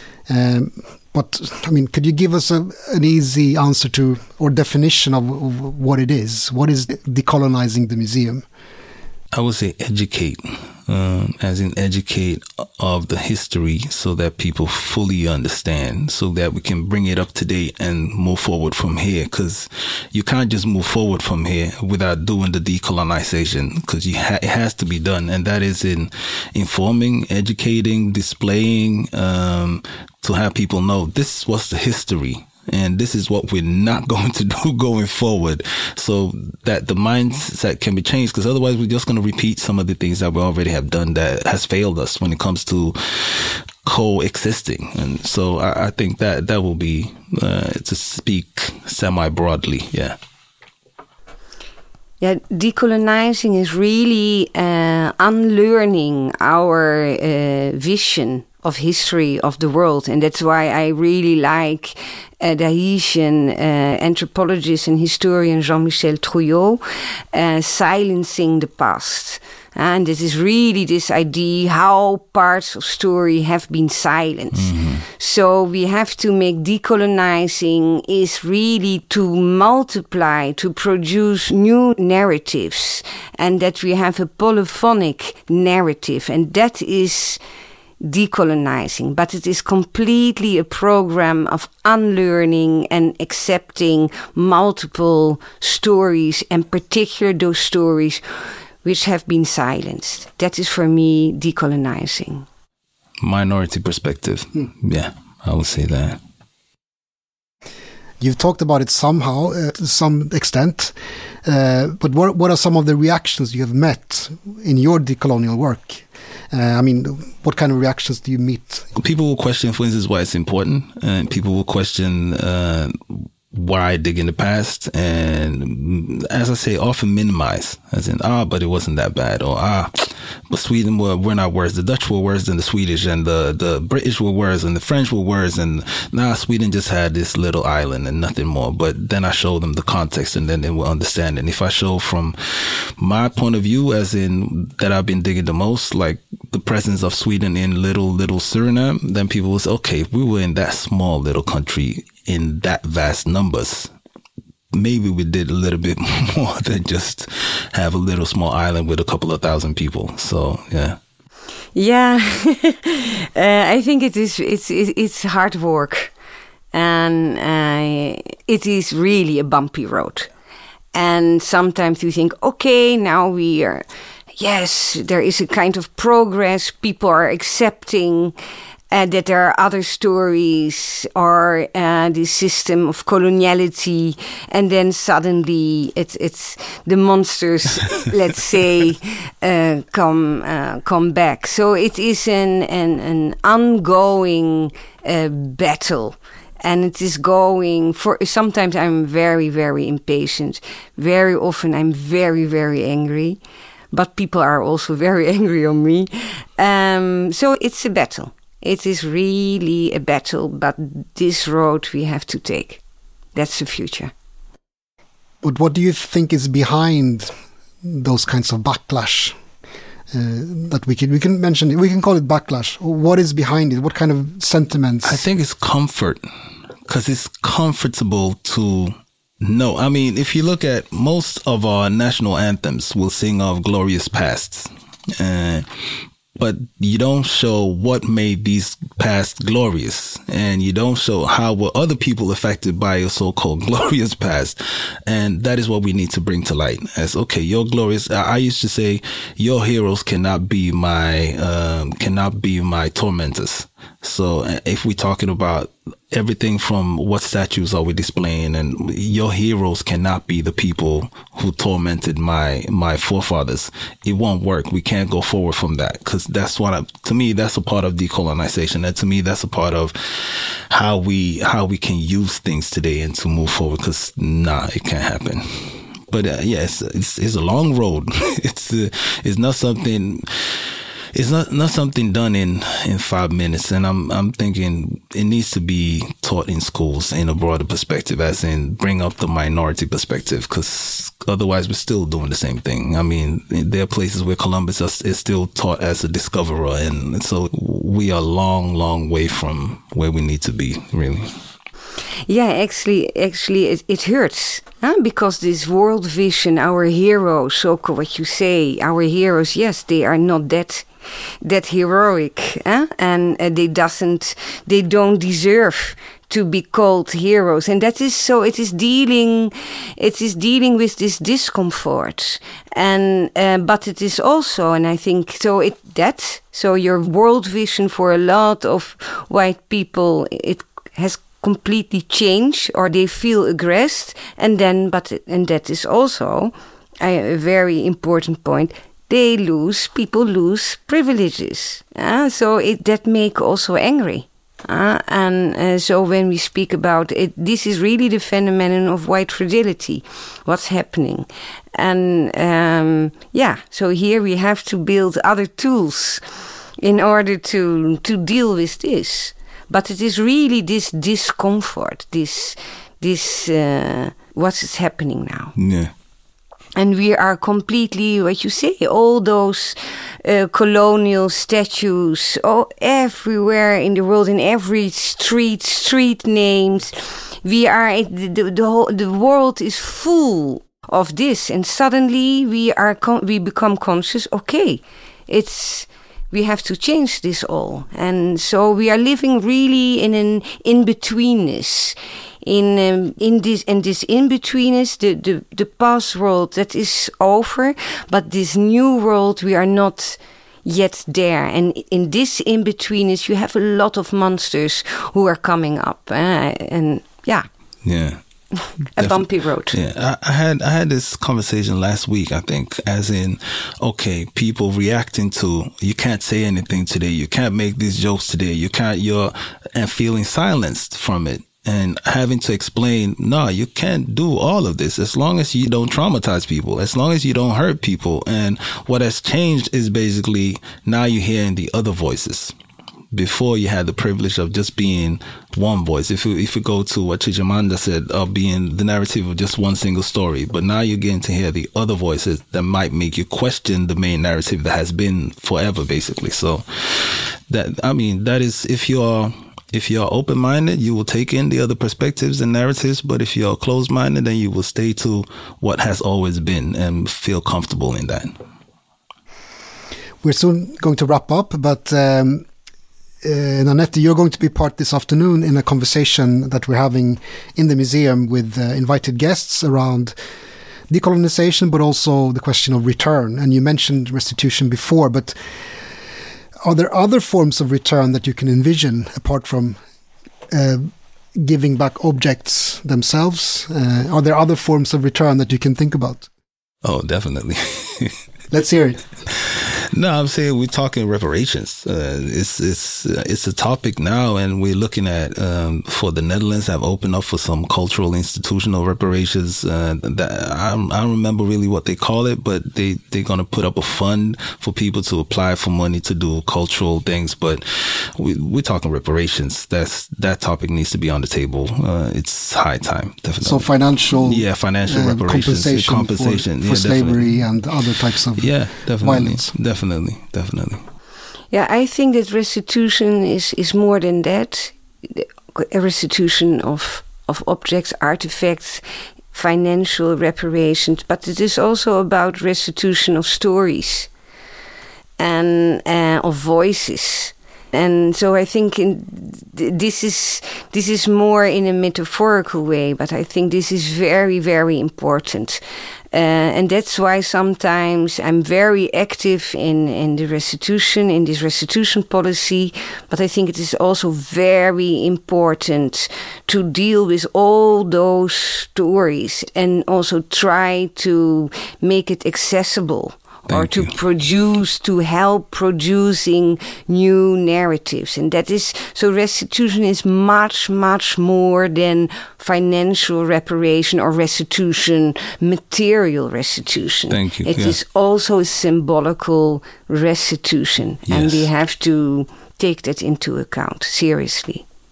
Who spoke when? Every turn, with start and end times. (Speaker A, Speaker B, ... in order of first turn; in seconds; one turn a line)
Speaker A: 0.3-8.4
Speaker B: 9.3-50.2
Speaker C: 52.2-87.4
Speaker B: 74.5-75.0
Speaker C: 88.0-98.2
Speaker C: 98.8-102.5
Speaker B: 103.2-106.2
Speaker A: 108.2-118.9
Speaker B: 119.0-153.9
Speaker B: 154.7-161.0
Speaker C: 161.8-166.1
Speaker C: 166.7-170.3
Speaker C: 170.9-173.9
Speaker C: 174.4-178.3
Speaker C: 178.9-203.4
Speaker C: 203.9-212.8
Speaker C: 213.3-214.1
Speaker A: 215.4-217.3
Speaker A: 217.8-219.4
Speaker A: 220.1-225.2
Speaker B: 225.0-226.3
Speaker B: 226.9-301.3
Speaker C: 302.3-310.9
Speaker C: 311.4-356.2
Speaker C: 356.8-365.5
Speaker B: 365.6-365.9
Speaker C: 366.8-407.5
Speaker B: 407.9-408.2
Speaker B: 409.0-432.5
Speaker C: 409.0-409.8
Speaker B: 433.1-458.3
Speaker A: 460.2-462.5
Speaker A: 463.2-470.1
Speaker A: 470.9-475.4
Speaker A: 476.6-479.8
Speaker A: 480.5-486.3
Speaker B: 486.8-488.2
Speaker A: 488.5-489.0
Speaker B: 489.3-517.4
Speaker A: 513.4-519.5
Speaker B: 518.4-520.8
Speaker C: 521.5-534.1
Speaker C: 535.2-545.6
Speaker C: 546.1-584.6
Speaker B: 563.5-563.9
Speaker B: 577.1-577.8
Speaker B: 581.1-581.5